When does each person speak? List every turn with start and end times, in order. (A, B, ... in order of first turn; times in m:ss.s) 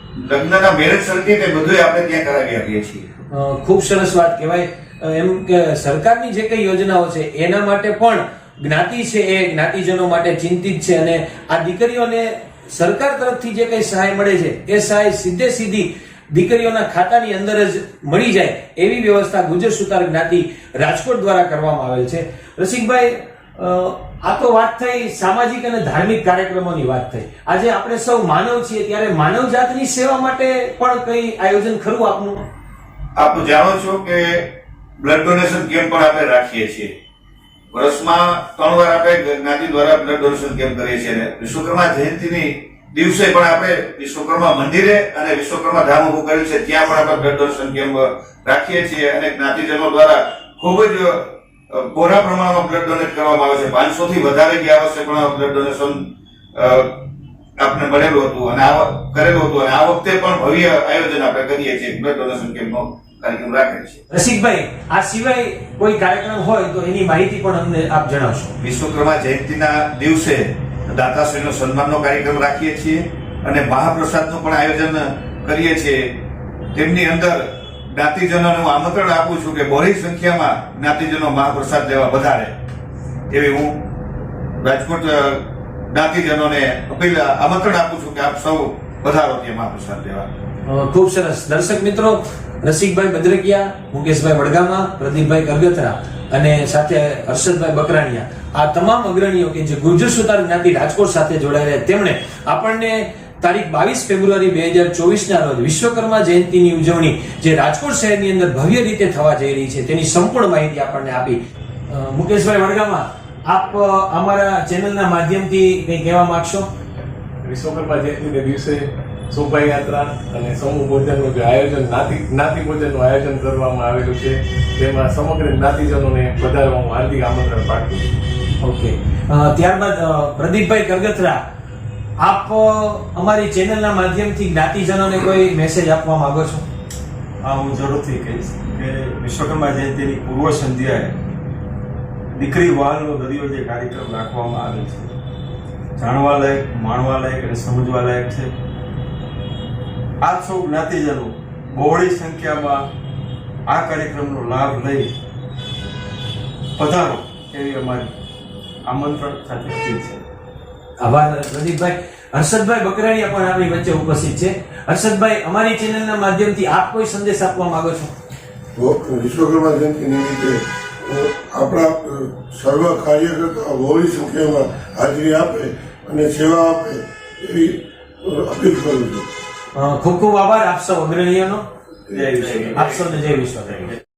0:00.2-0:03.1 A
0:03.3-0:32.4 B
0:33.2-0:34.5 A
0:35.0-0:36.9 A
0:37.7-0:57.0 A
0:57.6-1:04.0 A
1:04.1-1:08.5 B
1:08.6-1:16.1 A
1:16.7-1:22.5 A
1:23.3-1:23.8 A
1:24.6-1:30.3 A
1:30.6-1:51.4 B
1:51.9-1:56.6 B
1:57.4-2:08.0 C
2:08.6-2:11.4 B
2:12.2-2:16.6 B
2:17.4-2:21.1 D
2:22.3-2:25.1 D
2:26.0-2:28.5 D
2:30.2-2:32.9 D
2:33.6-2:35.1 D
2:36.8-2:38.1 D
2:38.8-2:40.2 D
2:41.0-2:48.1 B
2:48.8-2:59.2 E
2:59.7-3:01.6 B
3:02.1-3:02.8 D
3:02.7-3:03.9 B